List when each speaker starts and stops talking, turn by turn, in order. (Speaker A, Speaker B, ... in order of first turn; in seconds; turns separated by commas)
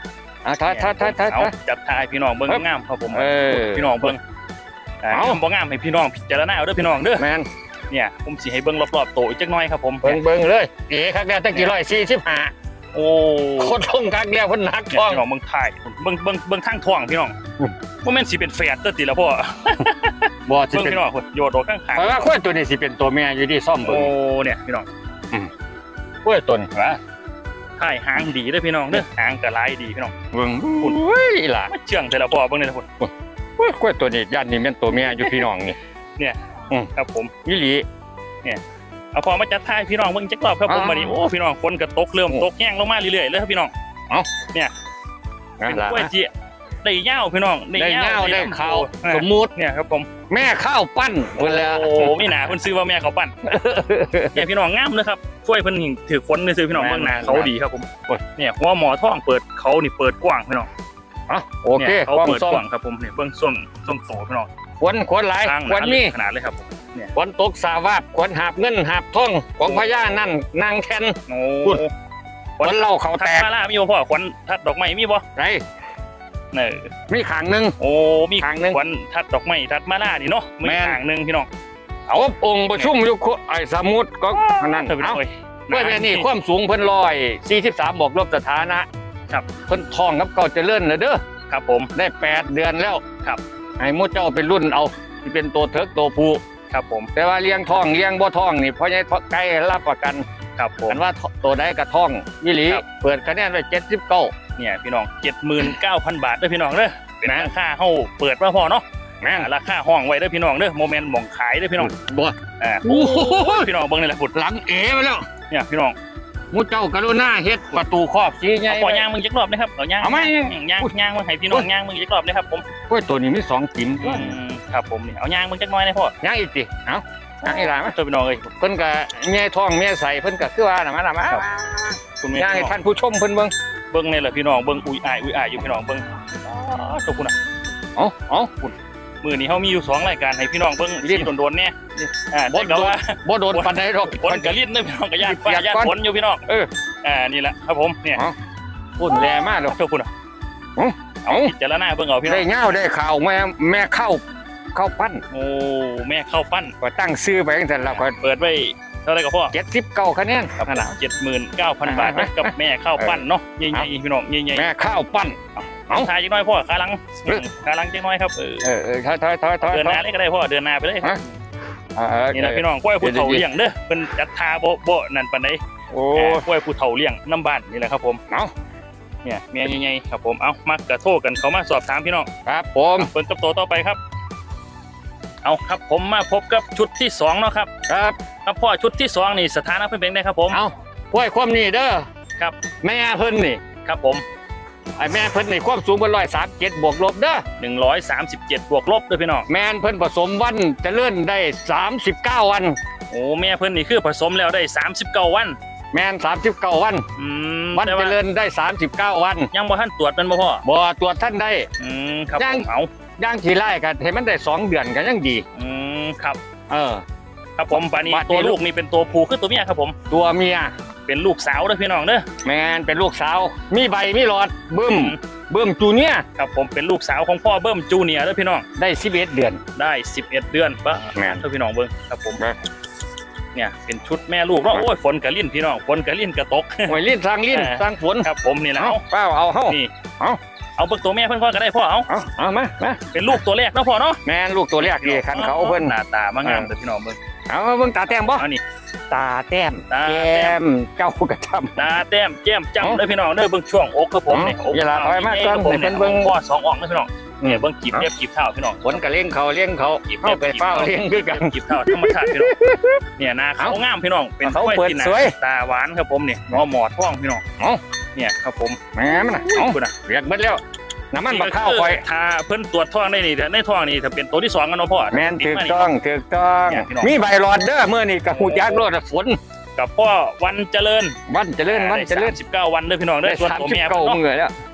Speaker A: 0.4-1.5, Speaker B: 0.7-4.2, Speaker A: 2.5-4.2, Speaker B: 5.0-7.2, Speaker A: 5.1-5.4, Speaker A: 7.2-7.5, Speaker B: 7.9-10.2, Speaker A: 10.0-12.5, Speaker B: 12.9-13.8, Speaker A: 13.6-15.2, Speaker B: 14.9-17.4, Speaker B: 18.0-22.3, Speaker A: 20.5-21.0, Speaker A: 21.9-24.1, Speaker B: 23.9-24.9, Speaker A: 26.2-27.0, Speaker B: 27.8-30.1, Speaker A: 30.3-31.7, Speaker B: 31.7-32.9, Speaker A: 33.0-35.8, Speaker B: 37.0-37.3, Speaker A: 37.5-37.9, Speaker B: 39.1-43.7, Speaker A: 40.7-41.2, Speaker A: 45.6-46.1, Speaker B: 45.7-46.3, Speaker B: 46.8-50.1, Speaker A: 47.8-49.5, Speaker A: 50.3-52.3, Speaker B: 51.4-53.4, Speaker A: 53.4-54.5, Speaker B: 54.3-60.7, Speaker A: 56.7-57.5, Speaker A: 61.3-62.6, Speaker B: 61.8-64.5, Speaker A: 64.8-66.2, Speaker B: 65.5-67.1, Speaker A: 67.2-71.8, Speaker B: 69.6-70.2, Speaker B: 71.3-71.9, Speaker B: 72.6-75.2, Speaker A: 72.6-73.5, Speaker A: 75.4-75.6, Speaker B: 76.5-76.9, Speaker A: 77.1-77.8, Speaker B: 77.8-81.5, Speaker A: 78.4-78.8, Speaker A: 80.6-81.0, Speaker A: 82.1-88.9, Speaker B: 84.3-86.3, Speaker A: 89.7-91.2, Speaker B: 91.5-91.9, Speaker A: 92.0-93.0, Speaker A: 93.8-96.4, Speaker B: 96.7-97.1, Speaker A: 97.2-100.2, Speaker B: 100.6-101.0, Speaker A: 100.9-104.3, Speaker B: 104.6-111.9, Speaker A: 109.2-109.5, Speaker A: 111.8-113.7, Speaker B: 112.6-114.3, Speaker A: 114.3-115.2, Speaker B: 115.5-116.0, Speaker A: 116.5-119.1, Speaker B: 118.7-122.7, Speaker A: 120.0-120.9, Speaker A: 122.9-124.4, Speaker B: 124.0-126.2, Speaker A: 126.2-128.0, Speaker B: 127.4-128.5, Speaker A: 128.6-133.5, Speaker B: 132.2-132.8, Speaker B: 133.9-137.3, Speaker A: 138.0-138.5, Speaker B: 138.6-146.4, Speaker A: 141.0-141.3, Speaker A: 142.5-144.6, Speaker A: 145.2-145.9, Speaker B: 147.0-148.2, Speaker A: 149.0-149.8, Speaker B: 149.0-150.1, Speaker A: 150.8-151.5, Speaker B: 151.2-152.5, Speaker A: 152.3-155.2, Speaker B: 155.3-156.7, Speaker A: 156.8-158.1, Speaker B: 157.8-159.5, Speaker A: 159.5-160.9, Speaker B: 160.6-164.7, Speaker A: 161.8-163.9, Speaker A: 164.6-166.1, Speaker B: 165.9-168.7, Speaker A: 168.6-170.0, Speaker B: 169.6-171.3, Speaker A: 172.0-173.4, Speaker B: 172.3-175.6, Speaker A: 175.9-176.5, Speaker B: 176.1-178.2, Speaker B: 179.2-182.3, Speaker A: 182.5-183.1, Speaker B: 183.0-184.0, Speaker B: 185.4-187.7, Speaker A: 187.9-188.2, Speaker B: 188.4-190.6, Speaker A: 190.5-192.1, Speaker A: 192.8-193.6, Speaker B: 193.8-194.2, Speaker A: 195.0-197.4, Speaker B: 197.6-199.5, Speaker A: 199.5-202.8, Speaker B: 203.1-205.6, Speaker A: 205.9-207.1, Speaker B: 207.2-208.2, Speaker A: 207.7-209.5, Speaker B: 209.5-210.6, Speaker A: 210.7-211.7, Speaker B: 211.8-212.9, Speaker A: 212.4-215.4, Speaker B: 215.6-216.4, Speaker A: 216.7-217.0, Speaker B: 217.6-219.9, Speaker A: 217.7-218.6, Speaker A: 220.1-220.7, Speaker B: 221.1-222.3, Speaker A: 222.4-226.2, Speaker B: 224.9-225.2, Speaker B: 226.4-228.7, Speaker A: 228.8-229.6, Speaker B: 229.8-232.4, Speaker A: 231.2-231.4, Speaker B: 233.6-237.0, Speaker A: 236.9-240.4, Speaker B: 237.5-239.0, Speaker B: 240.8-242.1, Speaker A: 242.1-243.0, Speaker B: 243.1-244.2, Speaker A: 244.3-246.7, Speaker B: 244.8-247.2, Speaker A: 247.5-248.5, Speaker B: 248.2-248.6, Speaker A: 249.1-251.9, Speaker B: 249.9-250.6, Speaker B: 251.8-259.0, Speaker A: 254.3-256.3, Speaker A: 257.4-258.1, Speaker A: 258.8-263.0, Speaker B: 260.1-262.5, Speaker B: 263.2-267.4, Speaker A: 264.4-265.4, Speaker B: 268.1-269.9, Speaker A: 268.9-272.0, Speaker B: 271.3-275.9, Speaker A: 275.1-279.4, Speaker B: 276.7-277.2, Speaker B: 278.3-278.8, Speaker B: 279.8-281.1, Speaker A: 281.3-282.4, Speaker B: 281.7-284.2, Speaker A: 283.2-284.5